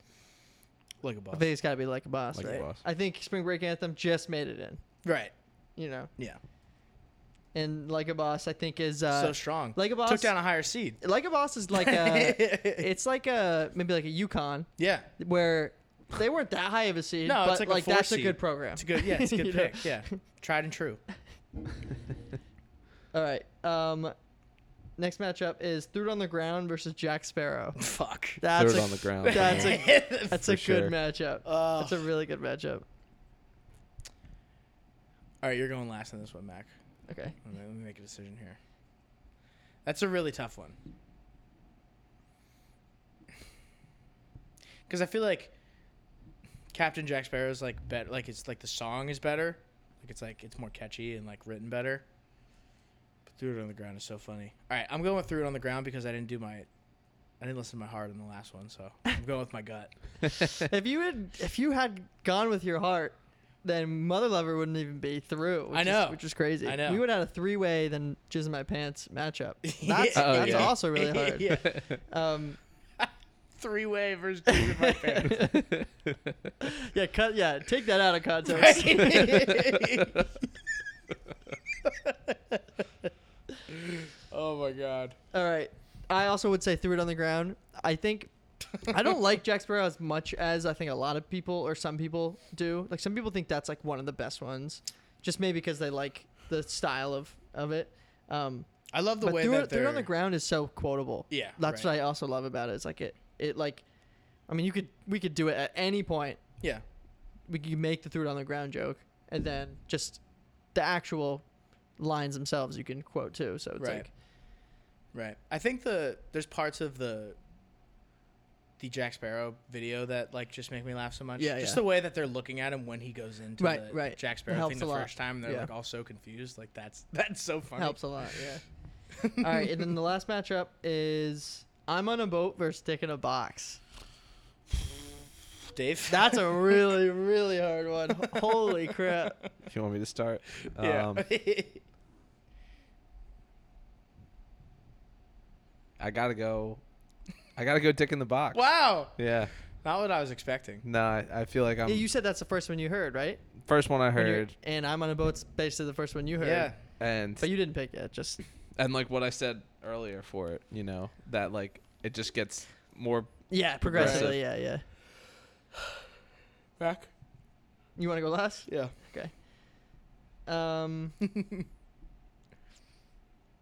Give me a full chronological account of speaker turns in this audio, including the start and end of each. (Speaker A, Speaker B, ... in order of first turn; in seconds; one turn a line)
Speaker A: 1.0-1.4
Speaker B: 1.3-4.8
Speaker C: 2.3-2.8
Speaker A: 5.0-5.3
Speaker B: 5.8-6.1
Speaker B: 7.5-10.4
Speaker A: 9.1-11.0
Speaker B: 11.0-20.1
Speaker A: 11.7-12.9
Speaker A: 14.8-15.1
Speaker A: 17.2-21.0
Speaker B: 23.1-24.1
Speaker B: 25.0-27.8
Speaker A: 27.8-28.4
Speaker B: 28.4-32.8
Speaker C: 28.5-30.9
Speaker A: 29.2-30.4
Speaker A: 31.4-32.1
Speaker A: 35.4-36.7
Speaker B: 37.1-37.3
Speaker A: 37.4-38.6
Speaker A: 39.8-40.8
Speaker A: 44.9-45.5
Speaker A: 46.7-52.0
Speaker A: 53.3-56.7
Speaker A: 57.4-59.9
Speaker B: 60.6-72.6
Speaker A: 65.7-67.0
Speaker A: 69.6-71.7
Speaker C: 70.1-70.8
Speaker A: 73.0-75.5
Speaker B: 74.8-75.6
Speaker C: 75.4-75.8
Speaker B: 76.6-79.5
Speaker A: 78.5-80.3
Speaker A: 81.8-82.6
Speaker A: 83.7-85.2
Speaker B: 85.3-88.3
Speaker B: 88.8-98.7
Speaker A: 98.9-100.1
Speaker B: 99.2-103.8
Speaker A: 101.3-101.9
Speaker B: 104.5-106.4
Speaker B: 107.5-110.2
Speaker B: 110.7-111.4
Speaker B: 112.0-114.1
Speaker A: 113.8-114.1
Speaker A: 115.1-117.4
Speaker A: 118.8-128.1
Speaker B: 121.4-121.8
Speaker B: 123.6-125.7
Speaker B: 127.8-128.6
Speaker A: 129.2-129.7
Speaker B: 129.4-133.8
Speaker A: 135.7-136.7
Speaker B: 136.1-139.4
Speaker A: 138.4-138.8
Speaker C: 139.7-141.3
Speaker A: 140.8-141.8
Speaker C: 146.0-146.8
Speaker C: 147.6-149.5
Speaker A: 148.5-149.2
Speaker A: 149.8-150.8
Speaker C: 150.8-152.1
Speaker B: 151.8-153.4
Speaker C: 153.6-154.5
Speaker B: 154.1-158.4
Speaker A: 156.4-156.8
Speaker C: 157.0-157.5
Speaker C: 158.8-164.4
Speaker B: 163.5-164.8
Speaker A: 163.9-164.3
Speaker A: 166.8-167.1
Speaker B: 168.0-169.3
Speaker A: 168.7-168.9
Speaker B: 170.4-171.2